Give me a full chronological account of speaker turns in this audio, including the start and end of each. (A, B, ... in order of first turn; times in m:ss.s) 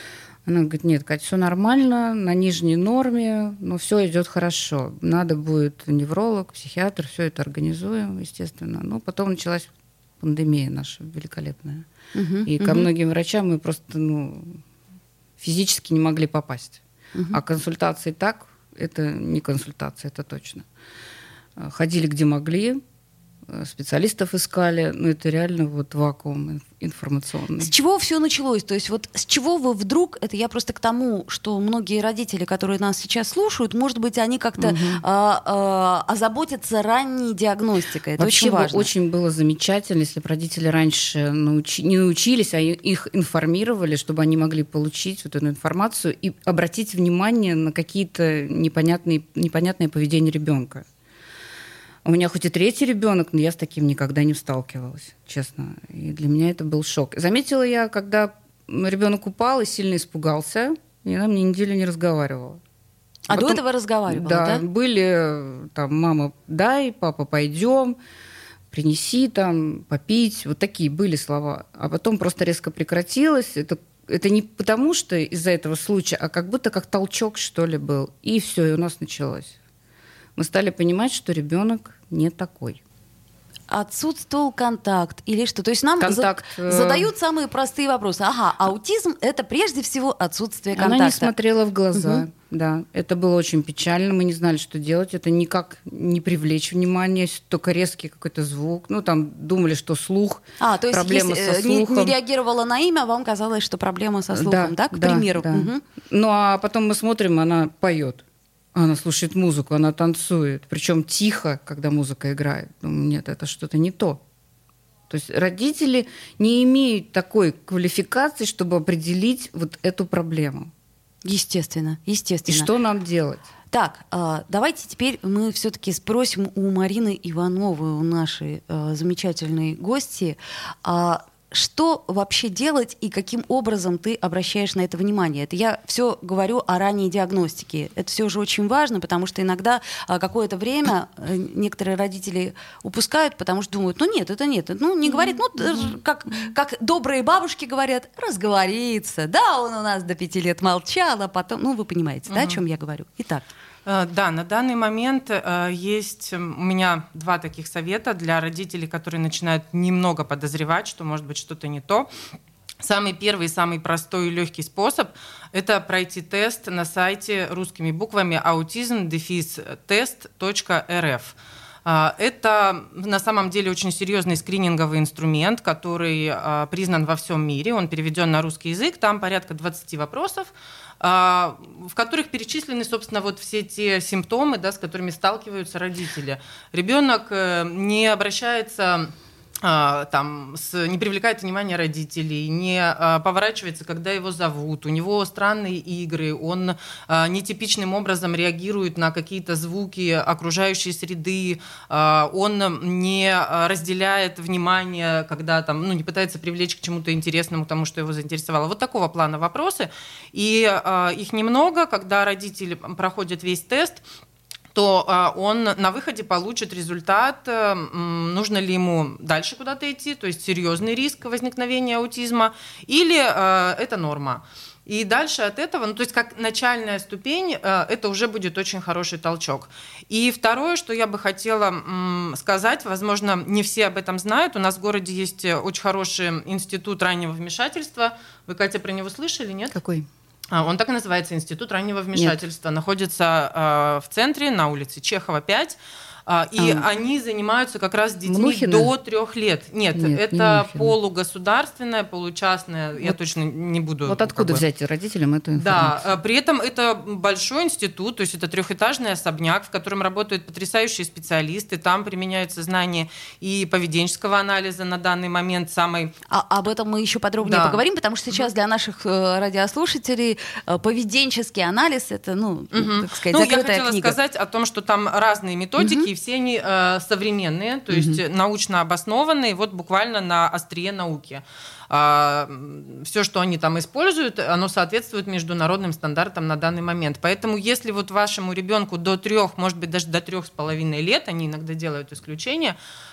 0:00.4-0:09.7 A
0:10.2-0:11.9 A
0:12.1-0:12.9 B
0:12.4-0:14.6 A
0:15.4-0:16.8 A
0:17.1-0:17.4 B
0:17.3-0:20.7 A
0:21.6-0:22.8 A
0:23.5-0:27.7 A
0:27.6-0:38.9 B
0:34.6-0:35.0 A
0:38.2-0:50.8 A
0:52.0-1:02.6 A
1:03.3-1:04.6 B
1:03.3-1:08.0 A
1:08.7-1:19.5 A
1:20.4-1:22.8 A
1:23.7-1:31.3 B
1:26.0-1:27.1 A
1:30.7-1:42.1 A
1:31.9-1:32.2 B
1:40.6-1:45.8 B
1:44.3-1:48.2 A
1:48.7-1:54.2 A
1:55.1-2:00.7 A
2:01.2-2:02.7 B
2:02.5-2:03.4 A
2:03.7-2:33.5 B
2:25.6-2:26.5 A
2:32.3-2:32.6 C
2:33.8-2:42.1 C
2:42.8-3:34.0 C
3:34.7-3:59.7 C
3:59.7-4:00.1 A
4:00.5-4:14.6 C
4:02.1-4:02.4 A
4:06.6-4:06.8 A
4:08.2-4:08.9 A
4:09.9-4:10.9 A
4:14.0-4:16.1 A
4:15.6-4:26.1 C
4:26.3-4:34.2 B
4:27.4-4:27.8 C
4:32.7-4:52.8 C
4:35.8-4:36.1 B
4:37.9-4:38.2 A